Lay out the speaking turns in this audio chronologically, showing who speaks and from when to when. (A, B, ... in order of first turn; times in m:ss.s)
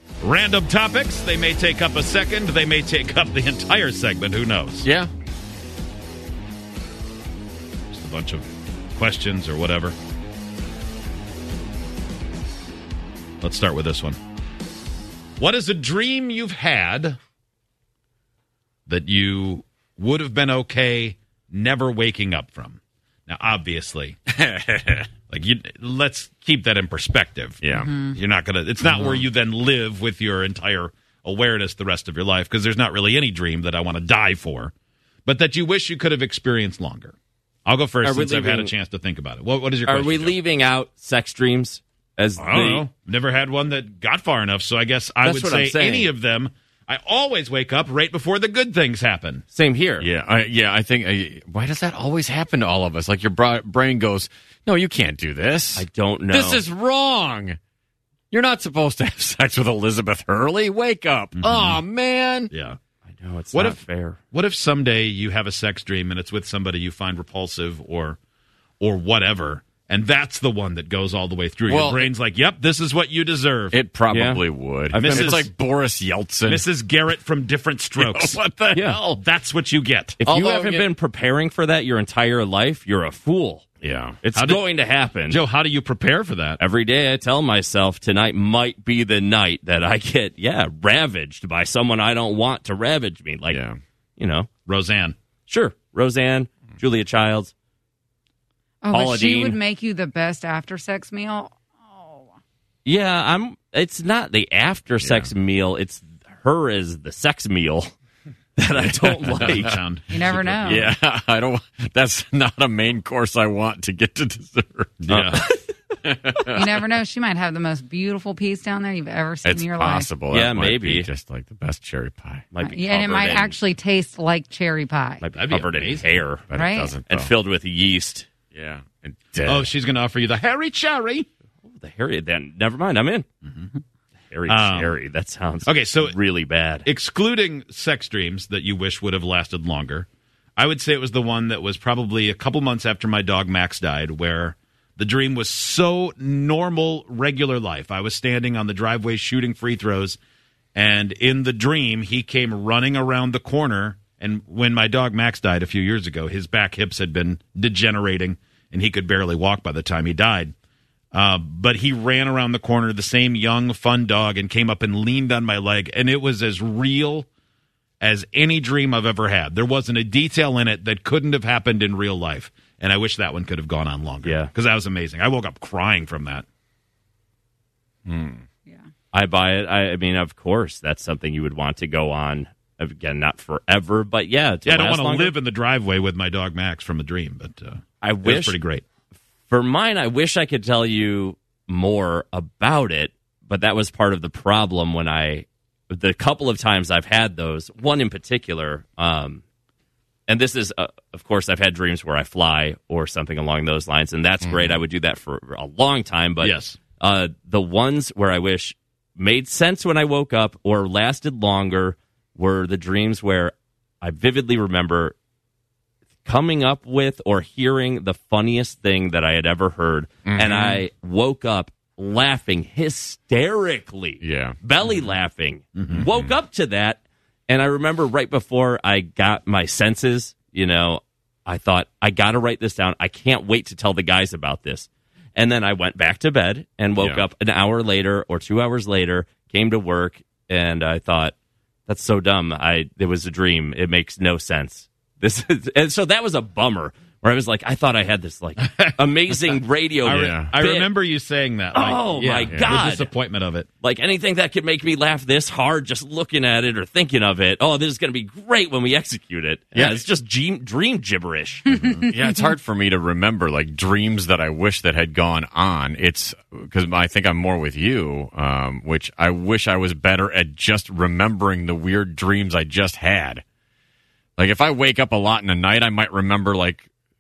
0:00.2-0:04.8 A
0:04.8-0:05.1 B
0:07.9-0:10.0 A
0:13.4-0:14.2 A
0:15.4-0:17.2 A
0:18.9-0:24.2 A
0:24.3-0:25.1 B
0:25.3-0:34.7 A
0:27.6-0:28.0 B
0:27.7-0:28.2 C
0:28.9-0:29.2 D
0:35.2-0:40.4 A
0:38.0-0:38.7 D
0:39.8-0:42.8 D
0:42.4-0:49.4 A
0:45.2-0:46.1 D
0:49.5-0:50.0 D
0:50.0-0:57.6 B
0:55.8-0:56.6 D
0:58.3-1:02.5 B
1:01.3-1:01.8 A
1:02.5-1:02.8 A
1:03.2-1:04.2 D
1:03.5-1:08.2 A
1:08.8-1:13.8 A
1:11.6-1:12.1 B
1:13.7-1:16.6 B
1:14.1-1:15.5 D
1:15.0-1:15.4 A
1:16.5-1:20.2 A
1:18.0-1:19.2 B
1:18.7-1:19.0 D
1:20.2-1:23.6 D
1:20.2-1:20.9 B
1:23.8-1:24.2 B
1:24.2-1:25.4 D
1:24.3-1:24.6 A
1:25.3-1:26.6 A
1:26.6-1:33.6 D
1:33.5-1:33.8 B
1:34.2-1:34.5 D
1:34.6-1:35.2 A
1:35.5-1:37.5 D
1:38.8-1:42.3 C
1:38.9-1:39.6 D
1:42.8-1:47.9 D
1:45.0-1:45.3 B
1:48.6-1:49.8 D
1:48.7-1:50.8 A
1:49.2-1:49.7 B
1:50.1-1:50.9 C
1:50.6-1:55.4 B
1:55.0-1:55.4 A
1:56.0-1:56.8 B
1:56.5-2:00.1 C
1:59.4-2:02.4 B
2:00.3-2:01.1 D
2:02.5-2:03.6 D
2:02.6-2:05.2 C
2:05.2-2:06.4 D
2:05.4-2:06.1 A
2:06.5-2:07.3 B
2:06.5-2:06.9 C
2:07.1-2:08.3 D
2:08.5-2:09.7 B
2:09.4-2:11.3 A
2:11.7-2:13.2 D
2:13.4-2:13.8 A
2:14.3-2:16.9 D
2:14.5-2:14.9 A
2:15.6-2:16.2 A
2:16.8-2:30.2 A
2:30.7-2:40.5 A
2:41.1-2:47.3 A
2:48.0-2:56.4 A
2:54.2-2:54.5 D
2:58.1-2:58.4 B
2:59.1-3:05.3 D
3:04.6-3:08.8 A
3:08.0-3:08.6 D
3:09.5-3:19.4 D
3:20.3-3:35.1 D
3:24.4-3:24.8 B
3:26.4-3:26.8 A
3:36.2-4:01.3 D
3:40.2-3:40.8 B
3:44.2-3:44.9 B
3:45.8-3:46.0 A
3:46.0-3:46.3 B
3:57.0-3:57.2 B
4:01.9-4:10.9 D
4:10.0-4:13.7 A
4:10.1-4:10.5 B
4:11.7-4:13.1 D
4:12.2-4:12.8 B
4:13.8-4:21.7 D
4:19.7-4:20.0 B
4:21.7-4:22.5 C
4:21.7-4:22.0 A
4:22.1-4:33.4 B
4:34.4-4:36.9 B